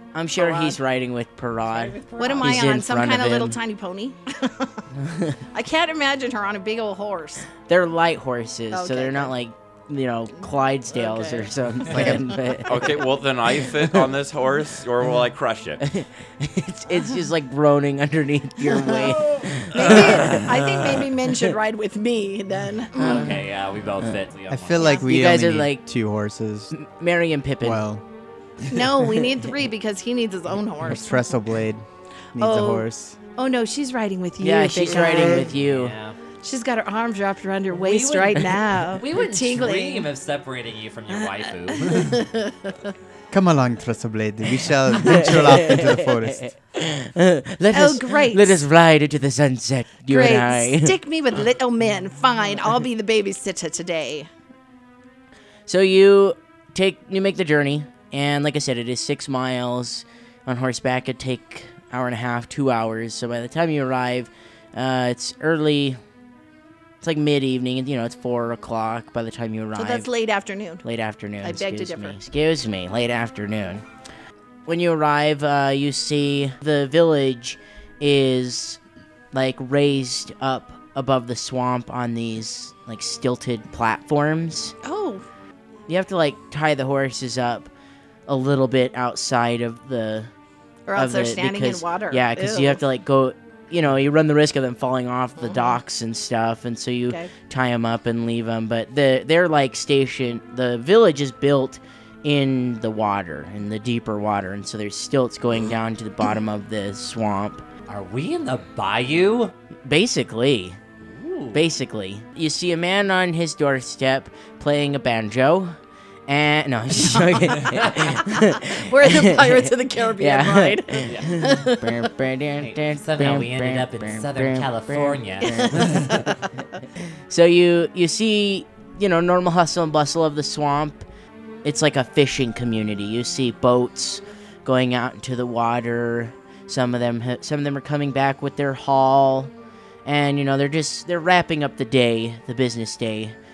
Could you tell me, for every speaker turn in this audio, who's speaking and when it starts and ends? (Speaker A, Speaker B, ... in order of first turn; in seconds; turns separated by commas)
Speaker A: 0.1-3.6, Speaker B: 0.3-0.8, Speaker B: 2.1-4.8, Speaker C: 2.2-2.5, Speaker A: 5.0-5.4, Speaker B: 5.5-7.5, Speaker A: 7.7-12.9, Speaker B: 8.7-9.3, Speaker B: 10.9-12.2, Speaker D: 11.9-12.2, Speaker E: 12.6-15.8, Speaker A: 15.9-20.5, Speaker B: 18.8-23.3, Speaker A: 23.0-23.3, Speaker C: 23.0-25.0, Speaker D: 24.5-26.7, Speaker B: 24.8-25.0, Speaker A: 25.1-25.9, Speaker A: 26.7-27.8, Speaker D: 27.6-28.0, Speaker B: 28.7-31.2, Speaker D: 30.9-31.8, Speaker D: 32.3-33.2, Speaker B: 32.4-35.5, Speaker A: 34.4-36.0, Speaker C: 35.4-36.1, Speaker B: 36.4-40.1, Speaker C: 37.7-42.2, Speaker B: 41.7-42.5, Speaker D: 43.3-46.5, Speaker A: 45.0-50.9, Speaker B: 47.7-48.6, Speaker B: 50.1-54.3, Speaker A: 55.7-66.0, Speaker A: 67.0-70.1, Speaker B: 69.8-70.8, Speaker A: 70.8-73.8, Speaker B: 71.4-72.2, Speaker A: 74.7-78.8, Speaker A: 79.3-84.7, Speaker B: 84.8-85.2, Speaker A: 85.9-87.7, Speaker A: 88.3-90.3, Speaker B: 90.9-92.8, Speaker A: 90.9-107.6, Speaker B: 95.4-95.8, Speaker C: 107.9-109.5, Speaker A: 109.8-110.8, Speaker C: 111.0-111.6, Speaker A: 111.5-115.8, Speaker A: 116.3-126.3, Speaker B: 117.1-121.7, Speaker C: 121.0-121.5, Speaker C: 122.6-126.2, Speaker B: 125.4-126.3, Speaker A: 127.3-131.1, Speaker A: 131.6-139.5, Speaker A: 140.0-143.3